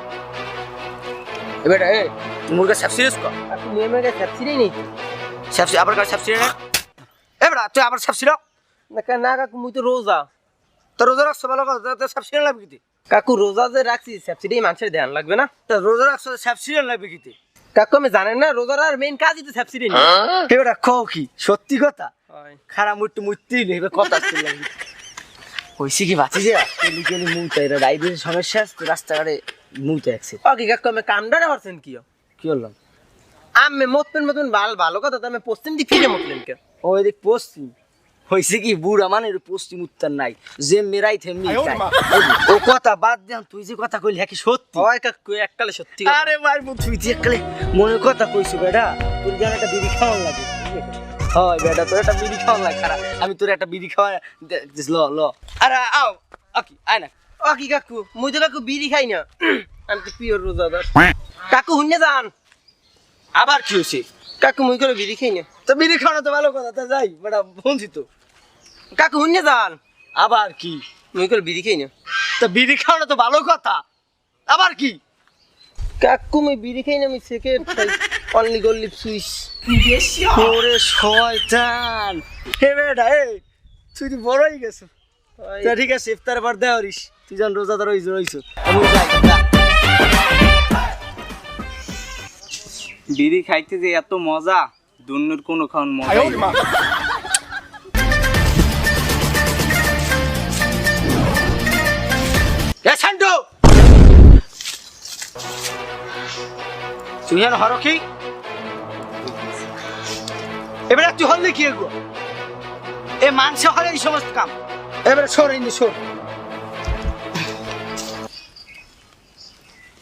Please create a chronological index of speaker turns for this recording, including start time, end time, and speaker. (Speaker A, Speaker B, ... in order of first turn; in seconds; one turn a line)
Speaker A: 1.6-3.4
Speaker B: 3.5-4.8
Speaker A: 5.5-6.5
Speaker A: 7.4-8.4
Speaker B: 8.9-10.3
Speaker A: 11.0-12.8
Speaker B: 13.1-15.5
Speaker A: 15.7-17.4
Speaker B: 17.8-20.1
Speaker A: 20.5-22.1
Speaker B: 22.3-22.6
Speaker A: 22.7-24.7
Speaker A: 26.1-30.4
Speaker B: 30.4-32.0
Speaker A: 32.4-32.8
Speaker B: 33.6-36.6
Speaker A: 36.8-37.7
Speaker A: 38.3-44.9
Speaker B: 44.8-46.3
Speaker A: 46.0-57.1
Speaker B: 57.4-60.9
Speaker B: 61.5-62.3
Speaker A: 63.4-64.0
Speaker B: 64.4-65.5
Speaker A: 65.6-68.1
Speaker B: 68.9-69.8
Speaker A: 70.2-70.8
Speaker B: 71.1-71.9
Speaker A: 72.4-73.8
Speaker A: 74.5-75.0
Speaker B: 76.0-79.5
Speaker A: 80.3-83.4
Speaker A: 84.0-84.9
Speaker B: 85.4-85.8
Speaker A: 85.6-89.4
Speaker C: 93.1-96.6
Speaker A: 102.8-103.4
Speaker A: 107.2-108.0
Speaker A: 110.9-111.9
Speaker A: 113.2-116.0